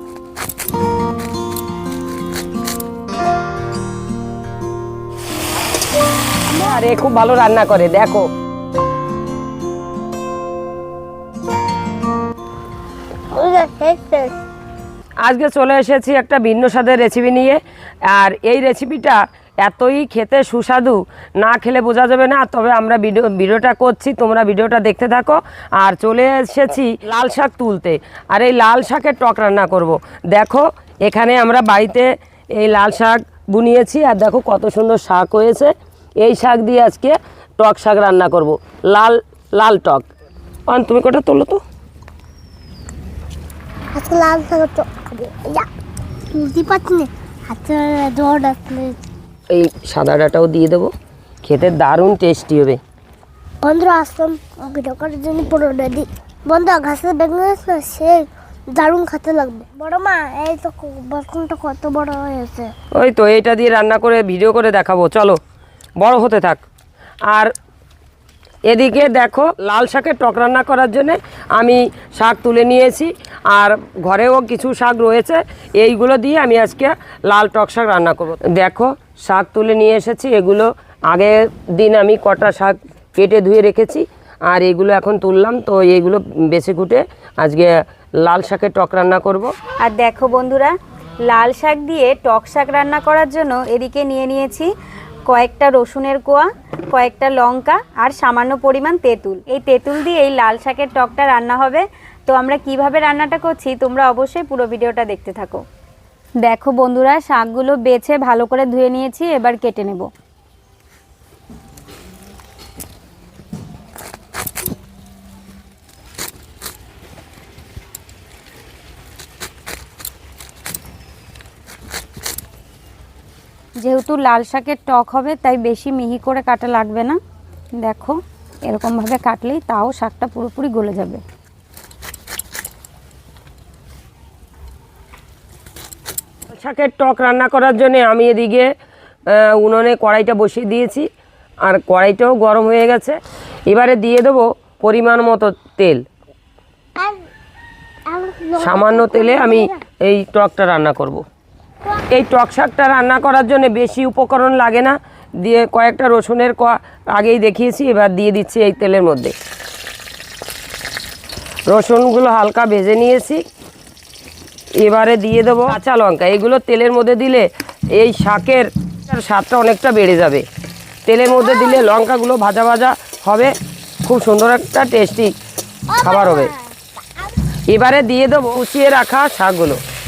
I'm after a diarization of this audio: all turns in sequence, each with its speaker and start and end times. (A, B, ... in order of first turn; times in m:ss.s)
0:06.5-0:08.3 A
0:13.3-0:14.4 B
0:15.2-0:40.0 A
0:40.7-0:41.6 A
0:43.9-0:45.7 B
0:46.3-0:49.0 B
0:49.5-0:52.8 A
0:53.6-1:02.7 B
1:02.9-1:05.4 A
1:06.0-1:06.6 A
1:08.7-1:29.5 A
1:29.8-1:30.7 C
1:31.3-1:34.7 C
1:35.3-1:45.6 C
1:46.4-1:50.1 C
2:03.8-2:07.2 C
2:07.8-2:11.2 C
2:16.5-2:18.7 A
2:19.3-2:21.1 A
2:21.6-2:26.0 A
2:28.1-2:29.8 B
2:28.6-2:31.2 A
2:32.1-2:39.3 A
2:41.7-2:43.4 A
2:44.8-2:50.5 A
2:51.1-2:53.5 A
2:51.4-2:51.9 B
2:54.0-2:55.3 A
2:55.9-2:57.3 B
2:56.0-2:56.5 A
2:57.7-2:59.8 A